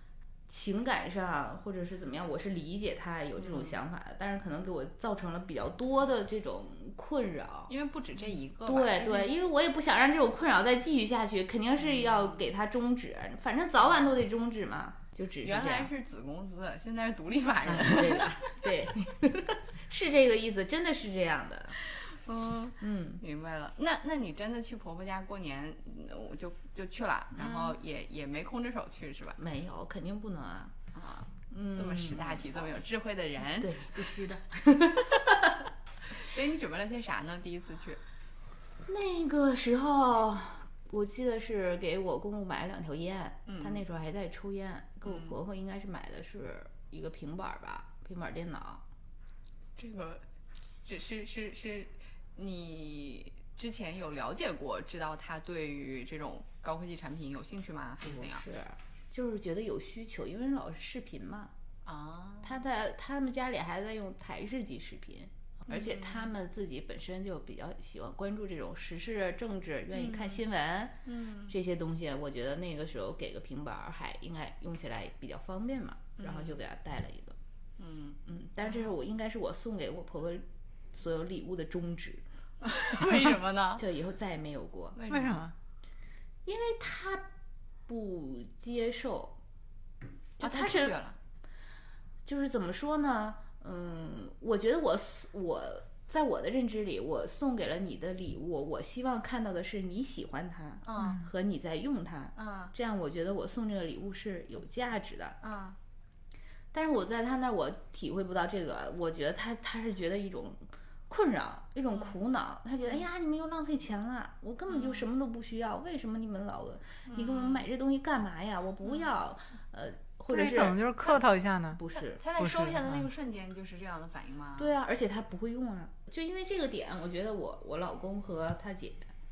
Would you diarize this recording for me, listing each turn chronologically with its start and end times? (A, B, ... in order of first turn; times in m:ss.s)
0:00.5-0:07.7 A
0:03.4-0:03.8 B
0:07.7-0:09.4 B
0:08.6-0:15.9 A
0:11.8-0:12.4 B
0:15.4-0:18.6 B
0:17.6-0:21.8 A
0:21.9-0:29.4 B
0:22.8-0:23.2 A
0:27.4-0:27.8 A
0:29.4-0:30.7 A
0:30.9-0:34.0 B
0:31.5-0:32.7 A
0:33.6-0:35.6 A
0:36.1-0:38.0 B
0:38.8-0:48.8 A
0:43.4-0:43.8 B
0:45.0-0:45.4 B
0:49.8-0:50.2 B
0:50.8-0:58.4 B
0:58.0-1:01.5 A
1:01.8-1:02.6 B
1:02.4-1:17.4 A
1:05.7-1:06.3 B
1:09.9-1:10.4 B
1:11.0-1:11.5 B
1:16.2-1:16.6 B
1:17.8-1:18.9 B
1:18.2-1:22.2 A
1:22.6-1:23.8 B
1:23.8-1:25.0 A
1:24.9-1:25.5 B
1:25.1-1:25.5 C
1:26.4-1:27.3 A
1:27.9-1:29.4 A
1:30.4-1:31.0 A
1:30.4-1:31.2 B
1:32.2-1:45.4 A
1:40.8-1:41.2 B
1:41.0-1:41.2 C
1:42.4-1:42.7 B
1:45.4-1:45.8 B
1:46.7-2:00.9 A
1:54.7-1:55.1 B
1:57.0-1:57.6 B
1:58.8-1:59.1 B
2:00.3-2:01.8 C
2:01.7-2:02.2 A
2:01.9-2:04.7 B
2:02.4-2:03.1 C
2:04.6-2:09.1 A